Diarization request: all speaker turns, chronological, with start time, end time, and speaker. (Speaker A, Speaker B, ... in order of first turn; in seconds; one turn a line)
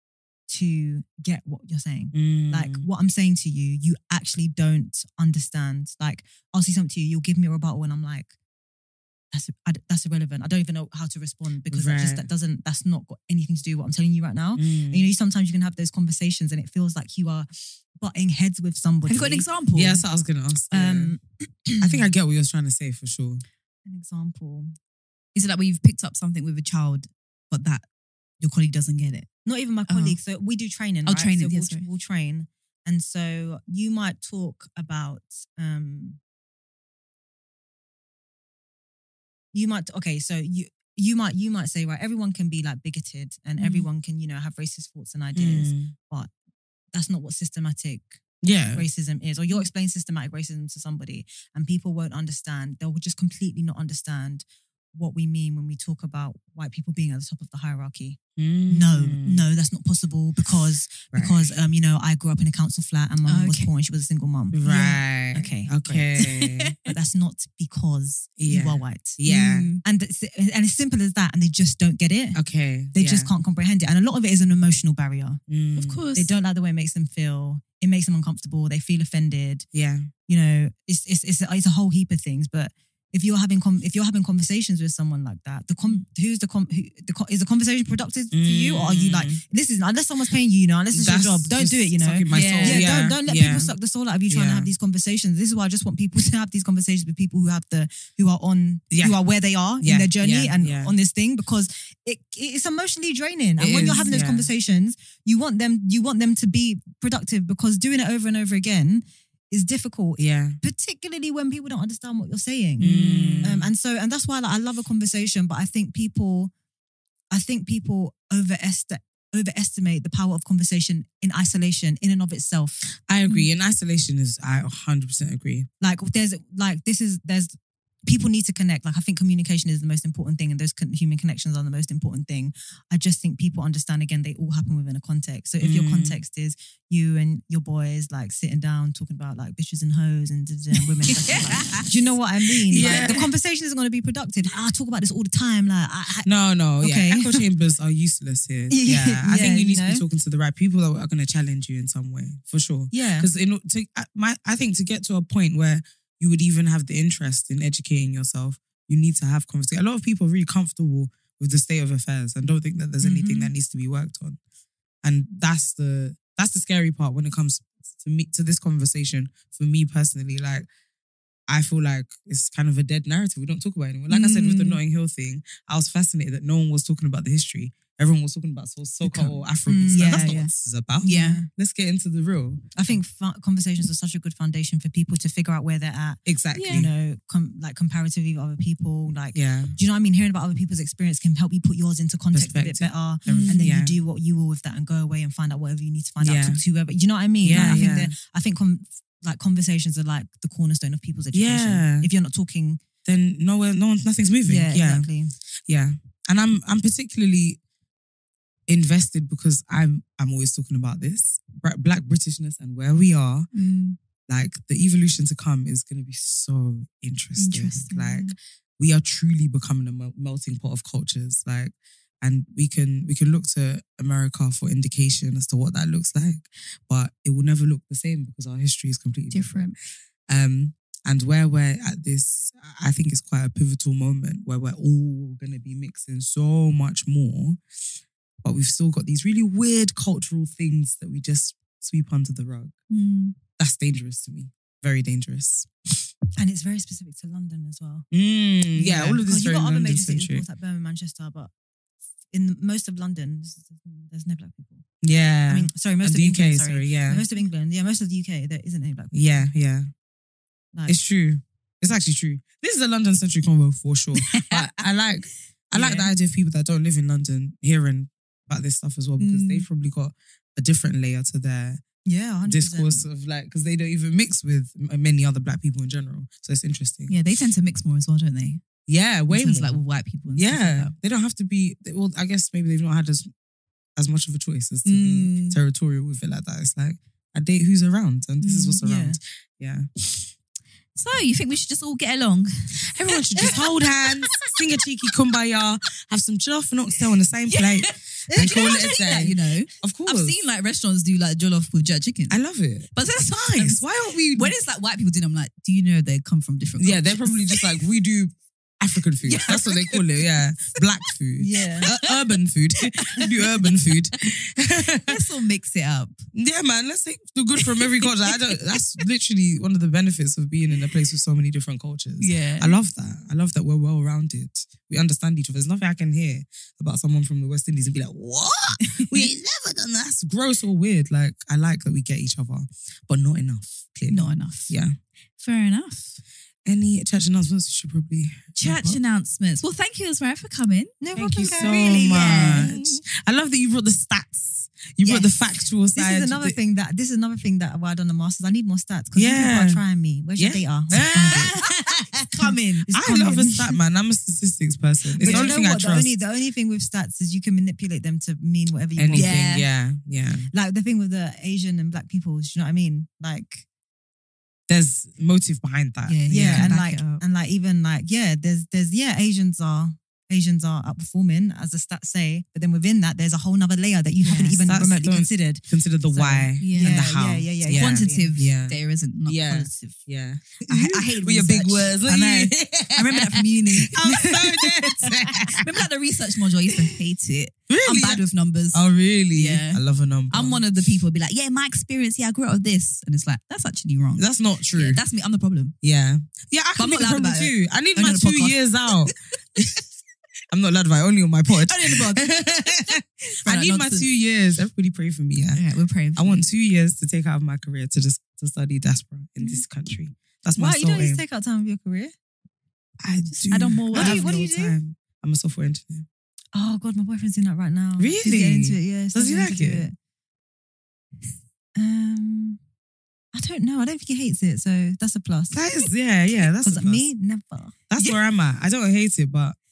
Speaker A: 0.5-8.3
Speaker B: 2.1-2.9
Speaker A: 9.3-19.5
Speaker B: 11.7-12.2
Speaker B: 14.6-15.1
Speaker C: 19.1-20.0
Speaker B: 19.7-21.1
Speaker A: 20.7-22.0
Speaker B: 21.8-23.4
Speaker A: 23.8-24.7
Speaker C: 25.3-27.8
Speaker C: 28.4-29.3
Speaker A: 29.4-36.2
Speaker C: 29.9-30.2
Speaker C: 31.0-31.8
Speaker A: 39.5-46.3
Speaker C: 43.6-43.9
Speaker B: 45.3-45.9
Speaker A: 46.9-48.2
Speaker B: 48.4-48.8
Speaker A: 48.7-66.2
Speaker B: 58.4-59.4
Speaker B: 61.1-61.5
Speaker C: 63.2-63.7
Speaker B: 64.5-66.7
Speaker C: 66.2-66.7
Speaker A: 66.8-69.2
Speaker B: 68.4-69.7
Speaker C: 69.2-69.8
Speaker A: 69.8-75.4
Speaker B: 72.3-73.3
Speaker B: 75.5-76.0
Speaker C: 75.8-76.3
Speaker A: 76.1-79.7
Speaker B: 79.7-80.1
Speaker A: 80.3-116.5
Speaker B: 88.3-89.4
Speaker B: 90.9-93.7
Speaker C: 92.3-92.9
Speaker B: 94.3-94.7
Speaker B: 98.9-99.2
Speaker B: 99.8-100.9
Speaker C: 103.6-104.2
Speaker B: 103.6-104.5
Speaker B: 110.2-110.6
Speaker B: 112.8-113.7
Speaker C: 113.1-113.4
Speaker A: 117.3-122.8
Speaker B: 123.1-125.7
Speaker A: 125.8-127.5
Speaker A: 128.0-147.4
Speaker B: 135.6-136.2
Speaker C: 141.2-141.8
Speaker B: 142.7-143.2
Speaker C: 142.7-143.2
Speaker B: 146.2-164.4
Speaker A: 148.7-150.0
Speaker A: 152.9-153.3
Speaker A: 163.0-163.5
Speaker B: 165.0-170.7
Speaker B: 171.5-182.7
Speaker C: 174.1-174.8
Speaker A: 179.0-180.5
Speaker C: 179.9-180.5
Speaker C: 181.0-181.4
Speaker A: 181.1-181.5
Speaker A: 182.8-202.8
Speaker B: 186.2-186.9
Speaker C: 186.5-186.9
Speaker B: 189.3-189.8
Speaker B: 192.3-194.0
Speaker C: 193.3-193.6
Speaker B: 196.2-196.6
Speaker B: 197.4-198.1
Speaker C: 197.5-197.9
Speaker B: 201.3-202.1
Speaker B: 203.0-205.1
Speaker A: 204.4-205.3
Speaker B: 205.7-207.6
Speaker B: 208.7-213.5
Speaker C: 213.5-214.0
Speaker B: 214.3-229.8
Speaker C: 217.4-218.3
Speaker C: 229.3-229.8
Speaker B: 230.3-237.6
Speaker B: 238.4-242.7
Speaker C: 242.9-243.3
Speaker B: 243.6-245.7
Speaker A: 246.4-248.1
Speaker B: 248.1-250.4
Speaker A: 248.8-251.5
Speaker A: 252.3-254.8
Speaker B: 255.0-257.2
Speaker A: 255.5-259.4
Speaker B: 259.1-259.9
Speaker B: 260.9-271.8
Speaker A: 265.7-266.1
Speaker C: 269.2-269.6
Speaker A: 272.1-273.1
Speaker B: 272.4-277.1
Speaker C: 277.1-278.6
Speaker B: 278.9-279.8
Speaker C: 279.3-280.9
Speaker B: 280.4-283.3
Speaker B: 283.9-289.9
Speaker C: 284.8-285.6
Speaker C: 288.4-288.8
Speaker A: 288.8-289.2
Speaker C: 290.9-292.7
Speaker B: 292.8-300.4
Speaker C: 293.3-293.6
Speaker C: 297.5-302.4
Speaker A: 298.3-299.0
Speaker B: 302.3-304.5
Speaker C: 302.9-303.8
Speaker C: 304.3-307.7
Speaker B: 306.8-315.1
Speaker C: 309.2-310.8
Speaker A: 311.4-311.9
Speaker C: 311.8-312.1
Speaker C: 313.0-313.7
Speaker C: 315.1-316.2
Speaker B: 316.3-334.9
Speaker C: 317.8-318.1
Speaker C: 322.2-322.8
Speaker C: 328.8-329.3
Speaker C: 334.1-334.7
Speaker C: 335.4-336.2
Speaker B: 336.6-339.0
Speaker C: 338.6-342.7
Speaker A: 341.0-343.0
Speaker B: 341.1-346.6
Speaker A: 345.0-345.3
Speaker A: 345.9-353.8
Speaker B: 349.1-349.8
Speaker B: 350.4-351.5
Speaker C: 350.9-352.8
Speaker B: 352.9-356.1
Speaker A: 355.2-359.4
Speaker C: 355.2-355.6
Speaker B: 359.0-360.5
Speaker C: 359.1-359.6
Speaker A: 360.5-363.6
Speaker B: 364.7-366.8
Speaker C: 366.1-367.2
Speaker A: 366.3-378.3
Speaker C: 374.2-374.6
Speaker B: 374.6-385.6
Speaker C: 376.6-377.2
Speaker C: 377.7-380.0
Speaker C: 380.6-395.7
Speaker B: 387.7-390.6
Speaker B: 394.2-395.0
Speaker B: 395.8-399.7
Speaker C: 396.8-398.9
Speaker B: 400.5-405.6
Speaker C: 401.6-404.1
Speaker C: 405.5-406.4
Speaker B: 406.1-411.2
Speaker A: 410.6-412.1
Speaker B: 413.0-416.1
Speaker C: 413.3-414.4
Speaker A: 413.5-414.7
Speaker A: 416.5-419.9
Speaker B: 418.0-419.8
Speaker A: 421.8-422.6
Speaker A: 423.3-425.6
Speaker B: 425.5-427.0
Speaker A: 426.6-427.8
Speaker B: 427.9-429.6